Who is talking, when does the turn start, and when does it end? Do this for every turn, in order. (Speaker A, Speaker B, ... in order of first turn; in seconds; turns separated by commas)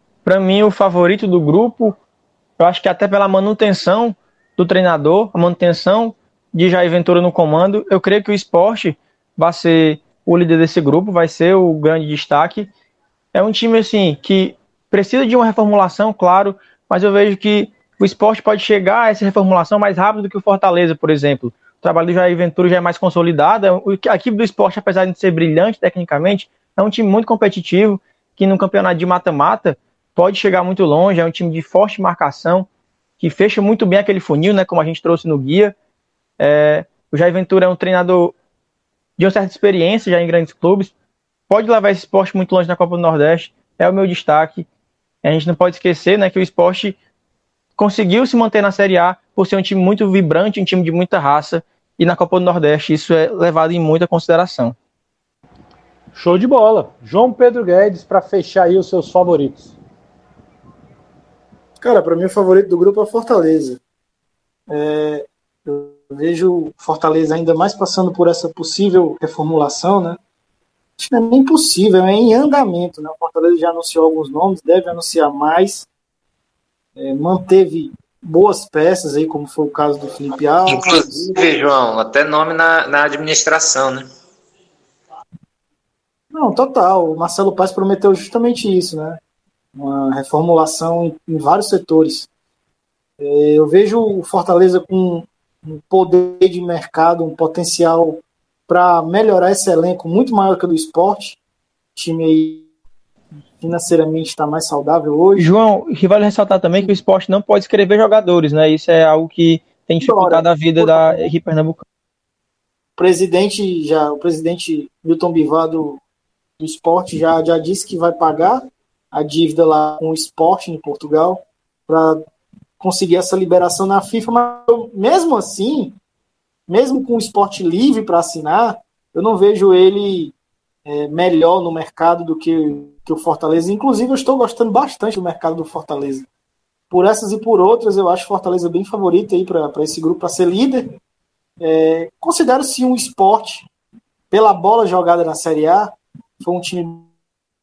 Speaker A: 0.2-2.0, Speaker A: 2.6-12.7, Speaker A: 13.3-32.7, Speaker A: 33.2-35.8, Speaker A: 36.4-38.4, Speaker A: 39.2-40.9, Speaker A: 41.5-44.7, Speaker A: 45.2-47.0, Speaker A: 47.8-54.8, Speaker B: 56.1-59.8, Speaker C: 61.8-63.8, Speaker C: 64.7-70.2, Speaker C: 71.0-75.9, Speaker C: 77.0-81.3, Speaker D: 80.7-84.1, Speaker C: 86.3-89.2, Speaker C: 89.7-92.3, Speaker C: 93.2-101.4, Speaker C: 102.0-102.7, Speaker C: 103.6-105.5, Speaker A: 105.4-111.8, Speaker C: 110.0-111.3, Speaker C: 113.0-116.0, Speaker C: 116.6-122.2, Speaker C: 122.8-126.0, Speaker C: 126.7-130.3, Speaker C: 130.9-136.3, Speaker C: 136.9-140.9, Speaker C: 141.6-143.7, Speaker C: 144.3-147.1